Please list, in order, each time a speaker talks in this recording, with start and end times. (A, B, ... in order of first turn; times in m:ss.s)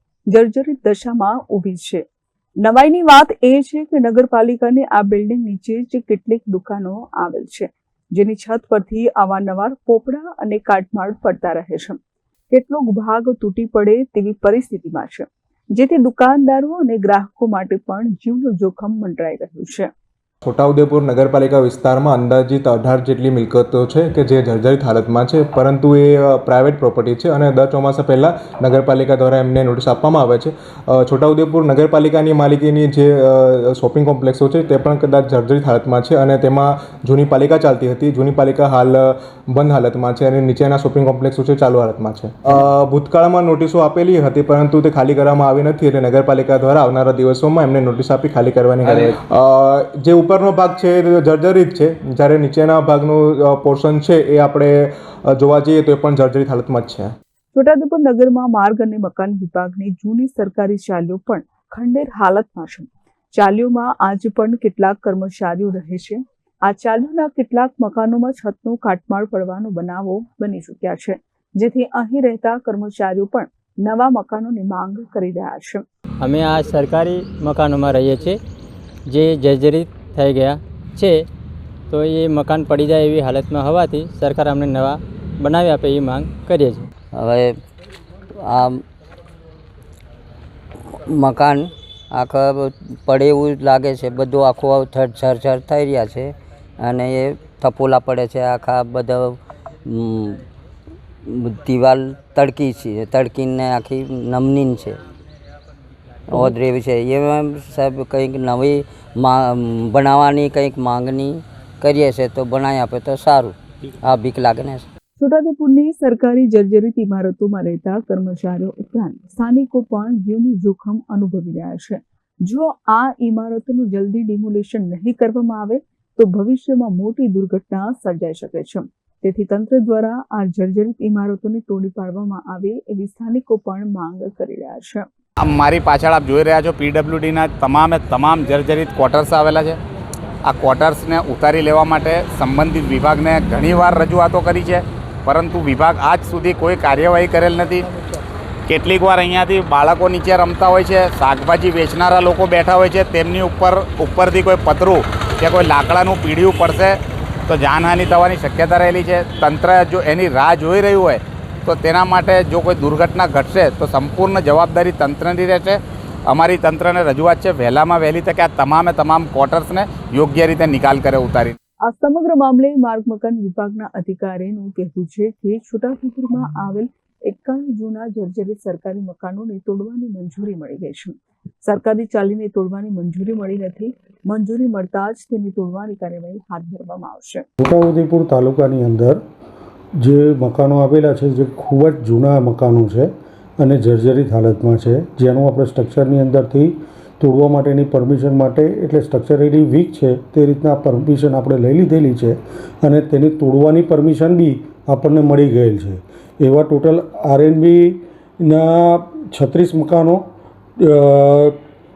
0:00.3-0:02.0 A
0:02.6-0:12.0 A
0:12.5-0:19.9 A
0:20.4-0:54.7 B
0:55.3-0:57.1 B
0:57.5-1:15.8 A
1:16.2-1:18.4 C
1:19.1-1:21.3 C
1:21.9-1:26.9 C
1:27.1-1:27.6 D
1:28.4-1:28.8 D
1:30.9-1:40.4 D
1:41.3-1:45.0 D
1:46.3-1:54.9 D
1:55.2-2:15.1 A
2:15.4-2:19.8 E
2:20.5-2:27.9 E
2:28.7-2:51.6 E
2:51.8-3:07.4 A
3:07.6-3:09.2 F
3:10.0-3:30.2 F
3:30.8-3:31.6 F